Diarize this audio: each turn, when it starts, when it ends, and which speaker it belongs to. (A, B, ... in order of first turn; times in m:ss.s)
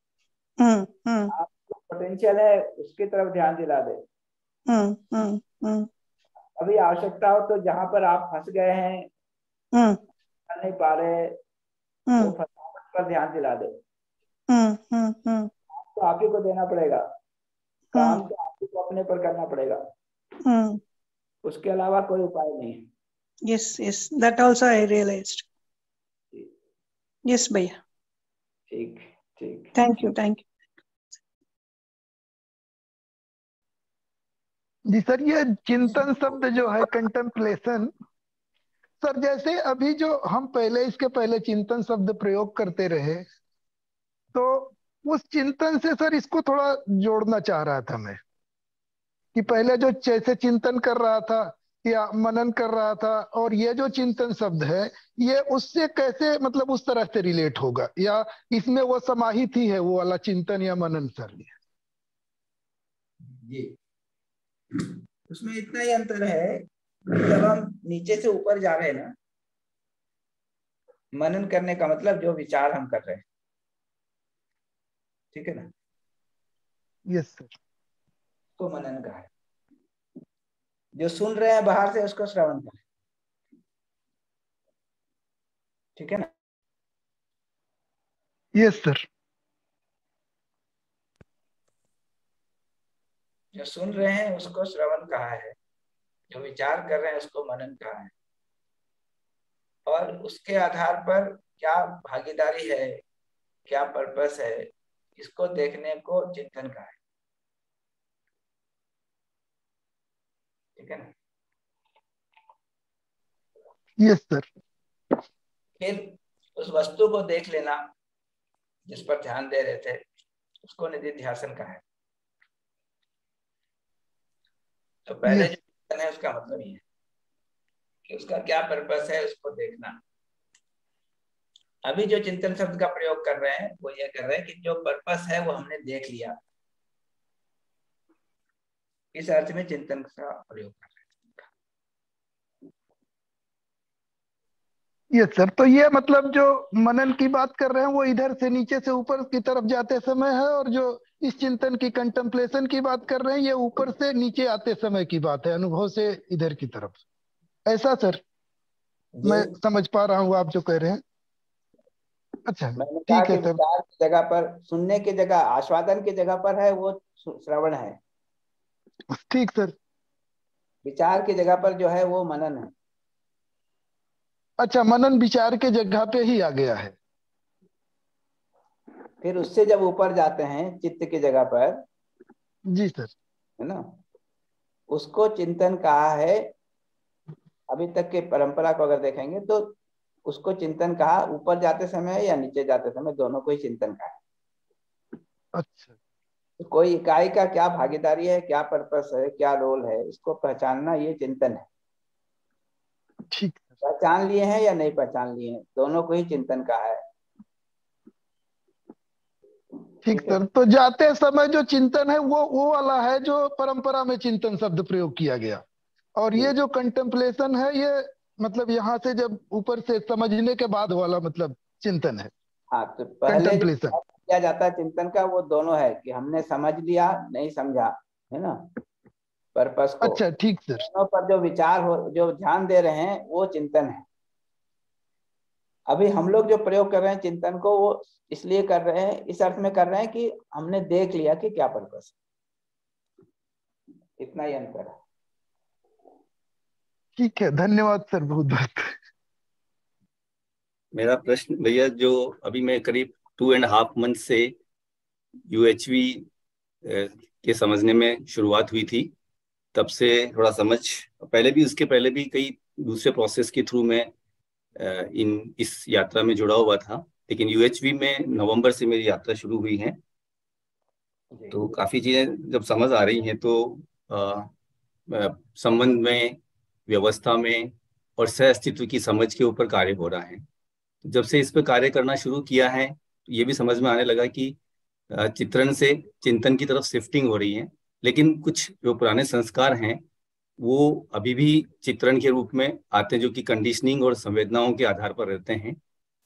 0:00.6-0:01.3 A
0:01.3-0:04.0 B
0:04.7-0:05.9 A
0:06.6-0:09.1 B
0:09.7-0:10.0 A
0:10.5-0:11.4 B
0:12.1-0:12.3 A
0:12.2-0:13.8 B
0:14.5-0:15.5 A
0:15.7-0:17.1 B
0:17.9-0:18.2 A
0:17.9-0:19.8 B
0:20.4-0:20.8 A
0:21.4-0:22.9 B
0:23.5-0:25.5 A
0:27.3-0:27.8 A
0:28.7-0:29.8 B
0:29.8-0:30.5 A
0:34.9-0:37.9 C
0:39.0-0:43.3 C
0:44.3-0:48.2 C
0:49.3-1:01.6 C
1:03.4-1:03.7 B
1:05.3-1:09.1 B
1:11.2-1:13.2 B
1:15.3-1:15.7 B
1:17.1-1:17.5 C
1:18.6-1:19.3 B
1:21.0-1:22.8 B
1:26.0-1:26.3 B
1:28.6-1:29.0 C
1:33.5-1:35.6 B
1:36.3-1:38.1 B
1:39.9-1:43.0 B
1:43.7-1:47.0 B
1:50.8-1:51.1 B
1:54.0-1:54.5 C
1:55.8-1:57.8 B
1:58.9-2:00.0 B
2:00.6-2:01.8 B
2:05.1-2:06.8 B
2:05.3-2:05.5 C
2:08.1-2:10.0 B
2:11.9-2:16.4 B
2:19.2-2:21.4 B
2:25.1-2:37.0 C
2:37.7-2:38.2 C
2:39.2-2:39.6 B
2:39.2-2:41.0 C
2:42.5-2:43.6 C
2:42.8-2:48.0 B
2:49.1-2:49.8 C
2:50.8-2:52.7 B
2:54.6-2:57.0 C
2:59.2-3:01.8 B
3:02.7-3:03.1 C
3:03.6-3:04.0 B
3:04.9-3:06.5 B
3:07.7-3:14.2 B
3:15.6-3:15.9 C
3:16.6-3:21.6 B
3:23.3-3:23.6 C
3:23.8-3:27.0 B
3:30.0-3:35.6 C
3:30.1-3:30.4 B
3:36.2-3:42.3 C
3:42.7-3:48.7 B
3:43.3-3:44.0 C
3:49.6-3:50.2 B
3:50.0-3:50.9 C
3:50.8-3:54.0 B
3:55.9-4:02.1 B
4:04.2-4:05.0 B
4:07.2-4:09.0 C
4:10.9-4:14.5 D
4:15.5-4:16.3 D
4:16.8-4:19.1 D
4:19.7-4:24.1 D
4:24.8-4:30.0 D
4:31.5-4:34.5 D
4:35.1-4:40.4 D
4:41.0-4:44.6 D
4:45.1-4:50.0 D
4:50.6-4:55.8 D